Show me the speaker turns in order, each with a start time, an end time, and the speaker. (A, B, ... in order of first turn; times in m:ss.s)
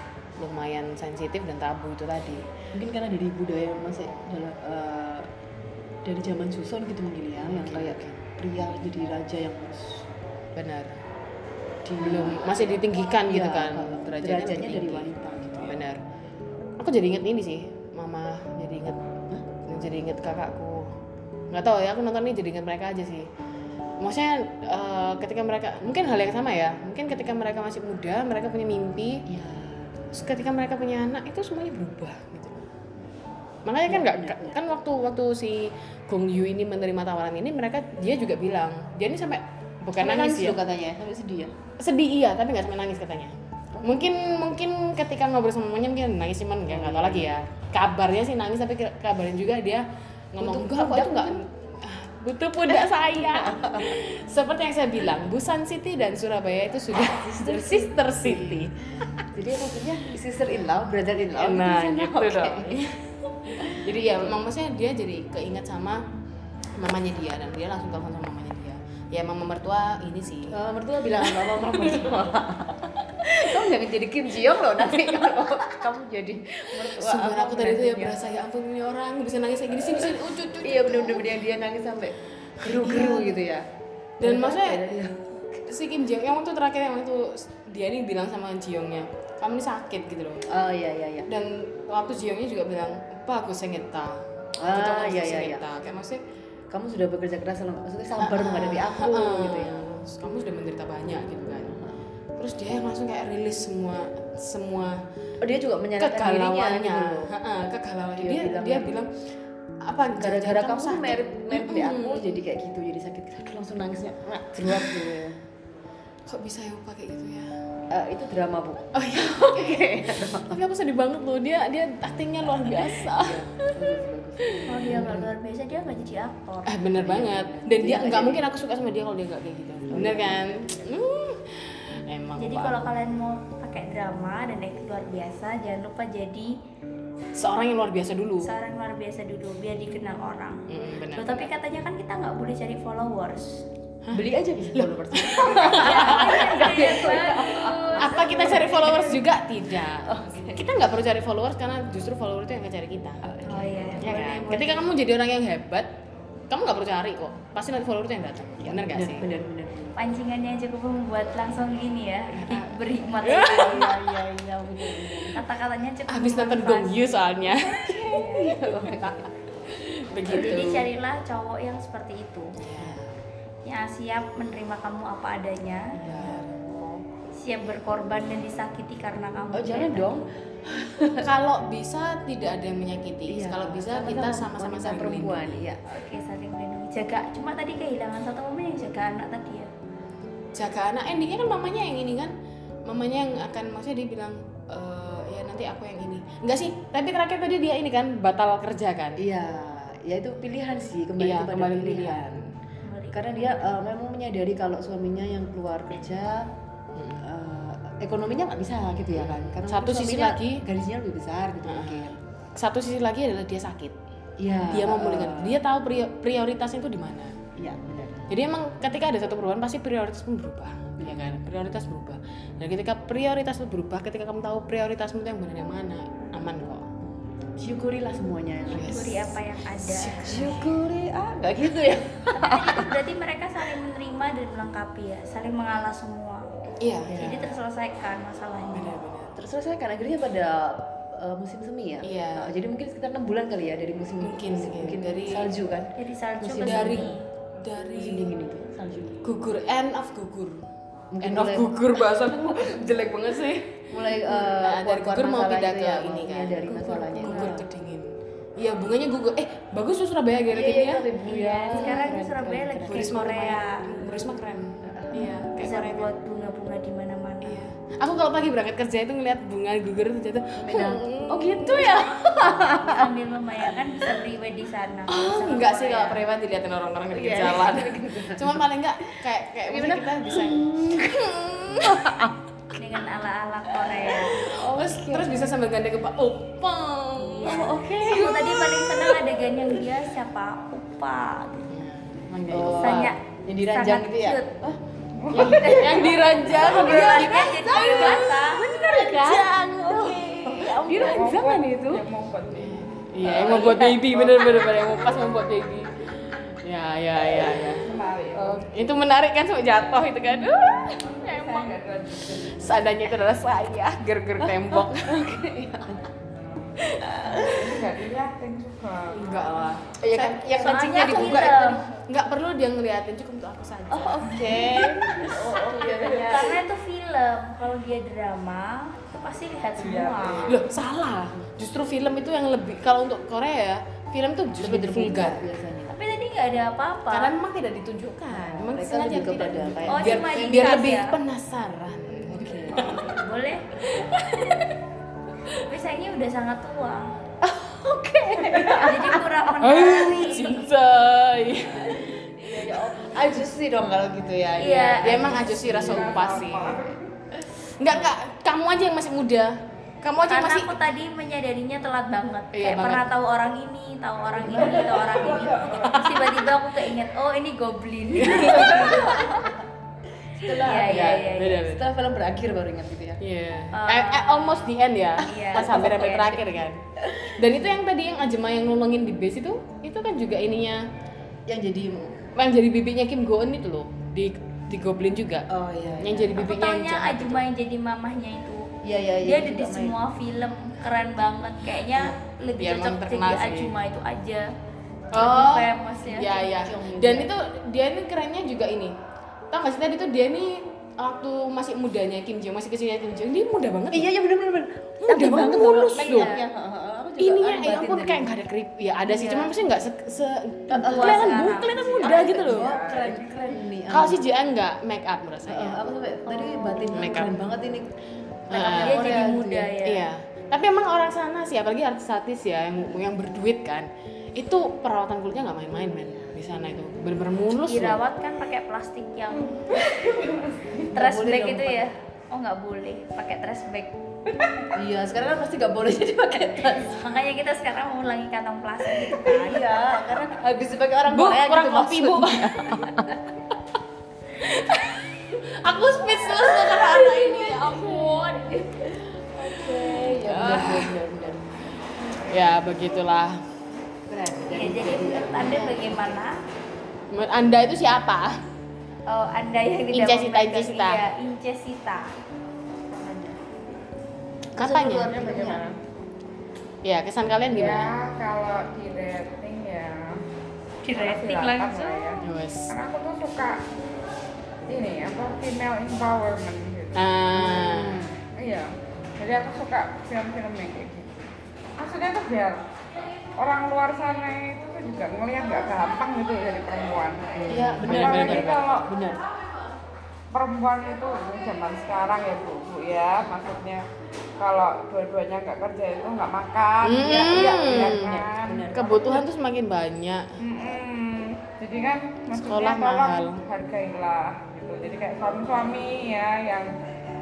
0:00.4-0:02.4 A
0:02.7-0:05.3 B
0:06.0-0:10.1 B
0:07.4-0:08.2 A
0:10.6-0:11.0 A
0:11.9-0:16.0 A
0:11.9-0:15.8 B
0:16.8-0:19.1 A
0:19.6-0:20.9 A
0:21.5-0:23.3 A
0:24.0-0:29.2 A
0:29.3-0:30.1 B
0:30.1-0:32.7 A
0:33.6-0:40.6 A
0:33.9-0:34.6 B
0:40.0-0:41.5 B
0:41.8-0:59.2 A
0:43.8-0:44.0 B
0:46.7-0:47.4 B
0:50.4-0:51.4 B
0:53.2-0:54.0 B
0:57.2-0:58.7 B
0:59.3-1:02.8 B
1:01.4-1:06.0 A
1:03.6-1:04.4 B
1:06.8-1:10.6 A
1:10.5-1:18.2 B
1:11.2-1:12.2 A
1:14.8-1:15.9 A
1:16.7-1:21.3 A
1:20.6-1:23.6 B
1:22.6-1:23.4 A
1:24.2-1:25.1 A
1:24.2-1:25.6 B
1:25.6-1:30.4 A
1:30.5-1:31.3 B
1:31.3-1:36.2 A
1:34.6-1:35.7 B
1:36.7-1:39.8 B
1:38.2-1:41.8 A
1:41.7-1:42.0 B
1:42.4-1:45.0 A
1:45.4-1:47.3 B
1:46.0-1:49.1 A
1:48.2-1:49.0 B
1:49.8-1:52.4 A
1:50.1-1:55.4 B
1:54.6-1:55.1 A
1:56.3-1:57.5 A
1:57.9-2:00.6 B
1:58.9-2:03.7 A
2:02.5-2:05.3 B
2:04.5-2:05.2 A
2:04.7-2:06.8 C
2:06.7-2:12.9 A
2:07.0-2:08.4 B
2:09.9-2:10.4 B
2:12.4-2:16.5 C
2:17.4-2:18.5 A
2:18.4-2:23.6 C
2:20.7-2:21.5 A
2:24.1-2:29.2 B
2:24.8-2:27.1 A
2:25.7-2:29.2 C
2:28.0-2:33.2 A
2:30.0-2:30.7 B
2:33.2-2:34.4 B
2:33.5-2:34.9 C
2:34.0-2:35.9 A
2:36.5-2:39.3 A
2:38.6-2:40.0 B
2:40.0-2:44.0 C
2:42.3-2:45.3 A
2:43.6-2:45.4 B
2:45.3-2:48.6 C
2:46.1-2:48.0 A
2:47.9-2:49.3 B
2:48.7-2:50.9 A
2:50.3-2:52.6 C
2:52.6-2:53.2 A
2:53.7-2:56.0 C
2:56.0-2:56.5 A
2:56.0-2:56.5 B
2:57.3-3:00.2 C
2:59.5-3:01.3 B
3:01.2-3:05.6 A
3:03.3-3:05.8 B
3:05.9-3:09.7 C
3:10.5-3:12.3 A
3:12.9-3:19.2 A
3:19.2-3:22.4 B
3:21.2-3:22.5 A
3:22.8-3:23.3 C
3:23.1-3:26.5 B
3:27.0-3:27.2 A
3:27.2-3:32.2 B
3:29.0-3:30.6 A
3:31.6-3:34.0 A
3:34.4-3:35.6 B
3:34.7-3:37.4 A
3:37.6-3:38.3 B
3:38.3-3:46.9 A
3:41.0-3:41.3 B
3:47.6-3:49.0 B
3:48.7-3:50.7 A
3:48.7-3:50.6 C
3:50.2-3:52.9 B
3:52.3-3:56.4 C
3:56.8-3:57.5 A
3:57.1-3:57.3 B
3:57.1-3:59.0 C
3:58.7-3:59.3 A
3:59.3-4:07.1 B
4:02.0-4:02.5 A
4:04.2-4:05.5 A
4:06.0-4:07.2 C
4:06.6-4:08.3 A
4:07.9-4:09.2 B
4:09.2-4:10.7 A
4:11.1-4:12.8 B
4:11.2-4:21.1 A
4:13.9-4:17.7 B
4:17.2-4:17.5 C
4:20.5-4:23.3 B
4:21.2-4:23.9 C
4:21.7-4:22.1 A
4:22.9-4:26.1 A
4:24.8-4:25.3 B
4:25.5-4:27.7 C
4:27.4-4:32.1 A
4:30.6-4:33.1 B
4:32.7-4:36.2 C
4:35.1-4:42.3 A
4:37.1-4:42.4 B
4:42.8-4:44.4 C
4:44.1-4:47.9 A
4:44.5-4:45.5 B
4:47.2-4:51.7 C
4:47.4-4:49.1 B
4:51.7-4:53.1 A
4:52.3-5:02.0 B
4:52.7-4:54.5 C
4:55.2-4:56.2 D
4:55.3-5:01.3 A
4:56.2-4:58.7 C
5:00.9-5:04.6 D
5:02.5-5:07.8 A
5:03.2-5:04.9 B
5:07.8-5:08.8 D
5:08.3-5:11.8 A
5:11.2-5:13.0 D
5:12.4-5:15.2 A
5:14.4-5:16.1 B
5:16.8-5:17.8 B
5:17.4-5:19.6 D
5:19.1-5:25.1 A
5:20.1-5:21.4 B
5:20.5-5:21.8 C
5:23.9-5:26.6 B
5:25.2-5:26.6 D
5:26.0-5:30.6 C
5:29.8-5:30.6 D
5:30.5-5:35.4 A
5:34.6-5:36.0 B
5:35.9-5:37.3 C
5:37.1-5:43.1 A
5:38.3-5:40.8 B
5:39.9-5:41.2 C
5:42.3-5:43.1 B
5:42.7-5:44.7 C
5:43.9-5:44.8 A
5:45.5-5:47.1 C
5:47.4-5:49.3 B
5:48.4-5:49.0 A
5:48.6-5:50.7 C
5:49.6-5:53.2 A
5:51.8-5:56.7 B
5:54.6-5:55.5 C
5:55.0-6:00.8 A
5:55.5-5:57.1 D
6:00.3-6:09.2 C
6:02.5-6:03.1 A
6:04.4-6:05.1 B
6:04.4-6:06.1 D
6:05.7-6:06.5 A
6:08.2-6:09.4 A
6:08.2-6:09.6 B
6:10.3-6:13.2 B
6:10.6-6:11.6 C
6:10.7-6:11.8 A
6:13.2-6:20.8 A
6:13.7-6:14.6 C
6:15.2-6:16.4 C
6:15.5-6:16.2 B
6:17.0-6:17.5 B
6:21.5-6:22.2 B
6:22.4-6:25.5 A
6:25.5-6:26.4 B
6:26.0-6:27.5 A
6:26.3-6:28.7 C
6:28.8-6:30.0 B
6:29.2-6:34.5 C
6:32.0-6:33.8 A
6:35.1-6:36.5 C
6:35.1-6:39.0 A
6:36.6-6:37.3 B
6:39.5-6:44.1 A
6:43.9-6:48.3 B
6:45.0-6:46.4 A
6:45.9-6:46.4 C
6:47.2-6:52.7 A
6:49.1-6:49.5 C
6:50.7-6:54.2 B
6:50.8-6:52.3 C
6:51.8-6:53.2 D
6:53.9-6:55.8 A
6:55.5-6:57.9 B
6:56.6-6:57.3 A
6:58.5-6:59.7 B
6:58.5-6:59.3 A
6:58.6-7:00.1 C
6:59.8-7:08.0 A
7:07.6-7:09.9 C
7:09.4-7:10.9 D
7:10.9-7:11.9 B
7:11.0-7:13.9 C
7:14.3-7:14.7 D
7:14.7-7:17.1 B
7:16.7-7:20.1 C
7:18.9-7:23.4 B
7:21.1-7:23.0 A
7:24.4-7:28.7 A
7:26.4-7:29.0 C
7:29.4-7:31.4 B
7:29.4-7:31.0 A
7:32.1-7:33.4 A
7:34.1-7:35.8 B
7:34.5-7:36.4 C
7:35.3-7:36.2 A
7:37.1-7:38.4 A
7:39.1-7:42.1 C
7:39.9-7:41.1 A
7:43.0-7:43.5 B
7:44.5-7:45.1 A
7:44.6-7:45.8 B
7:45.1-7:45.7 D
7:46.8-7:47.9 A
7:47.5-7:50.2 D
7:50.8-7:52.1 C
7:50.9-7:53.6 D
7:52.2-7:52.8 A
7:54.7-7:57.1 D
7:57.0-7:58.0 A
7:57.3-7:58.2 B
7:58.4-8:02.6 D
8:03.4-8:07.3 D
8:07.4-8:08.9 A
8:07.5-8:09.2 B
8:07.8-8:08.9 D
8:10.3-8:13.9 D
8:14.4-8:18.7 D
8:16.8-8:18.2 A
8:17.1-8:19.2 B
8:18.7-8:20.4 A
8:20.4-8:26.7 D
8:22.4-8:23.4 A